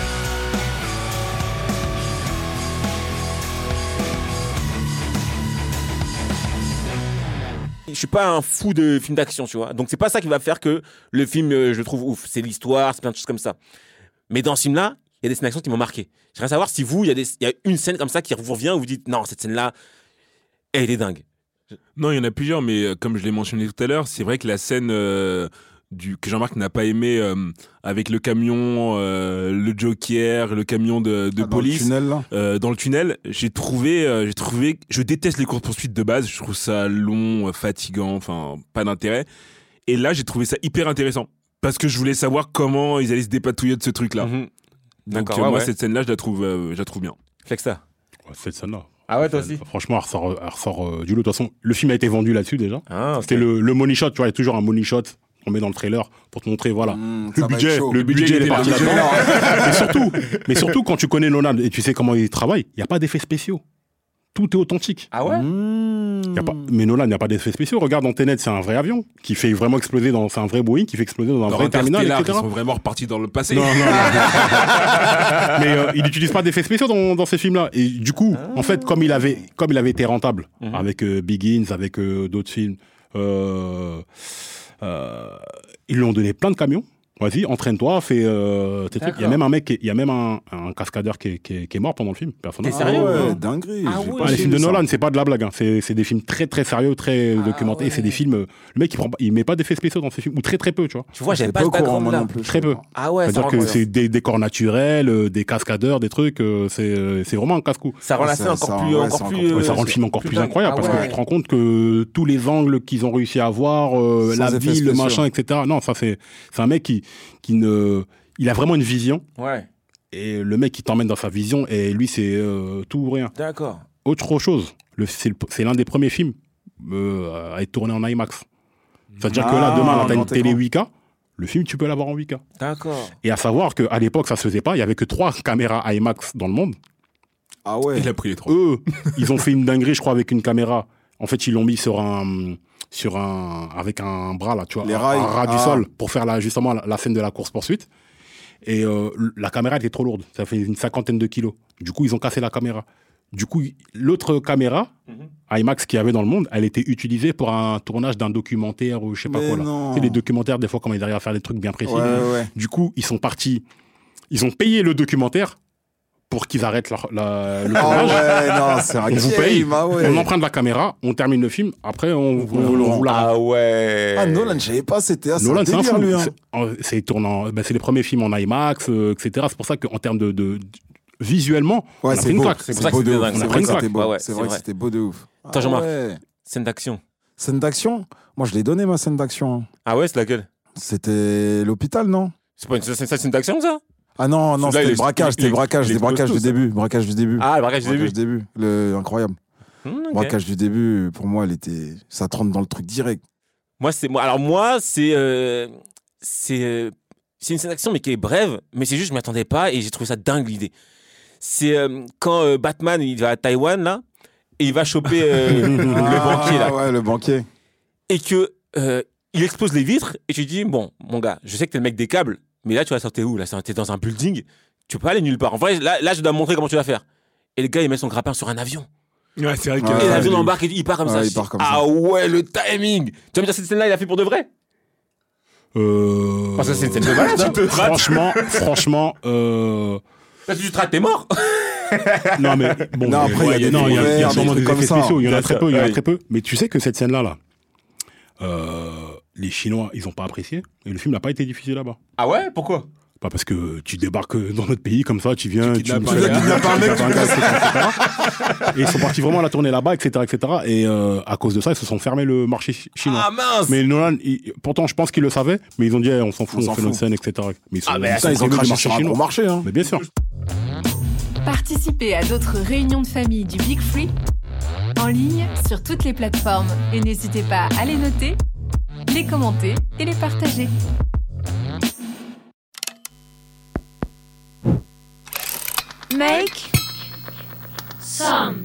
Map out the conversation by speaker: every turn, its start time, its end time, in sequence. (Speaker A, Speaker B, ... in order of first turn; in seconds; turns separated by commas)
Speaker A: 7.9-13.6, Speaker A: 14.3-19.7, Speaker A: 20.7-21.2, Speaker B: 21.9-39.3, Speaker C: 31.4-32.3, Speaker B: 39.9-44.3, Speaker A: 44.2-44.5, Speaker A: 45.1-45.7, Speaker B: 45.1-47.1, Speaker A: 47.4-47.8, Speaker D: 48.3-63.6, Speaker A: 49.1-49.6, Speaker A: 52.9-53.5, Speaker C: 56.9-59.4, Speaker B: 58.0-59.8, Speaker A: 58.6-60.7, Speaker D: 64.3-65.2, Speaker A: 65.1-65.5, Speaker C: 65.2-66.5, Speaker D: 66.3-72.5, Speaker B: 71.5-75.4, Speaker D: 73.5-84.0, Speaker A: 74.1-74.5, Speaker A: 78.3-79.4, Speaker A: 80.6-80.9, Speaker D: 84.8-93.3, Speaker A: 89.0-89.4, Speaker A: 92.6-94.6, Speaker C: 92.7-94.8, Speaker D: 94.1-101.1, Speaker A: 97.3-98.2, Speaker A: 101.1-102.3, Speaker C: 101.3-102.8, Speaker D: 102.4-108.0, Speaker A: 102.9-103.8, Speaker A: 108.0-111.2, Speaker C: 108.2-109.9, Speaker D: 109.5-119.2, Speaker C: 110.7-111.1, Speaker C: 114.2-115.2, Speaker A: 119.4-119.7, Speaker D: 120.1-123.3, Speaker A: 123.3-123.8, Speaker D: 124.0-128.4, Speaker D: 129.2-132.4, Speaker C: 129.3-130.6, Speaker A: 129.5-130.2, Speaker A: 132.6-133.1, Speaker D: 133.2-136.8, Speaker C: 137.7-138.1, Speaker B: 137.9-138.6, Speaker D: 138.4-147.9, Speaker C: 144.8-145.9, Speaker D: 148.6-154.9, Speaker D: 155.5-163.6, Speaker C: 159.2-160.2, Speaker C: 161.8-162.5, Speaker D: 164.3-165.6, Speaker D: 166.3-173.3, Speaker A: 167.7-168.7, Speaker C: 167.8-170.3, Speaker A: 172.4-174.6, Speaker C: 172.5-173.0, Speaker C: 174.2-176.3, Speaker D: 175.4-180.6, Speaker D: 181.2-183.9, Speaker C: 182.0-186.2, Speaker A: 182.7-184.6, Speaker A: 185.5-187.0, Speaker C: 187.4-189.7, Speaker A: 189.8-190.5, Speaker C: 190.8-192.3, Speaker A: 192.6-193.8, Speaker C: 194.2-199.4, Speaker A: 194.6-196.6, Speaker A: 197.4-198.2, Speaker A: 199.8-200.3, Speaker C: 200.1-203.2, Speaker A: 203.8-210.7, Speaker A: 211.4-214.0, Speaker A: 214.6-216.7, Speaker D: 215.5-216.5, Speaker C: 215.8-217.4, Speaker A: 218.1-227.0, Speaker A: 227.6-228.9, Speaker B: 229.4-230.6, Speaker C: 229.8-230.3, Speaker A: 229.9-234.5, Speaker C: 231.0-231.8, Speaker D: 235.7-240.0, Speaker A: 236.6-238.6, Speaker A: 240.5-246.0, Speaker D: 242.4-247.4, Speaker C: 243.0-245.2, Speaker D: 248.4-252.0, Speaker A: 252.2-252.9, Speaker D: 253.2-258.0, Speaker B: 255.6-257.3, Speaker C: 256.0-257.5, Speaker A: 257.2-259.1, Speaker D: 258.7-270.0, Speaker A: 263.0-263.8, Speaker C: 266.5-267.0, Speaker A: 267.9-268.4, Speaker C: 268.1-269.7, Speaker E: 271.4-274.1, Speaker E: 275.0-278.4, Speaker E: 279.1-280.7, Speaker E: 286.1-286.7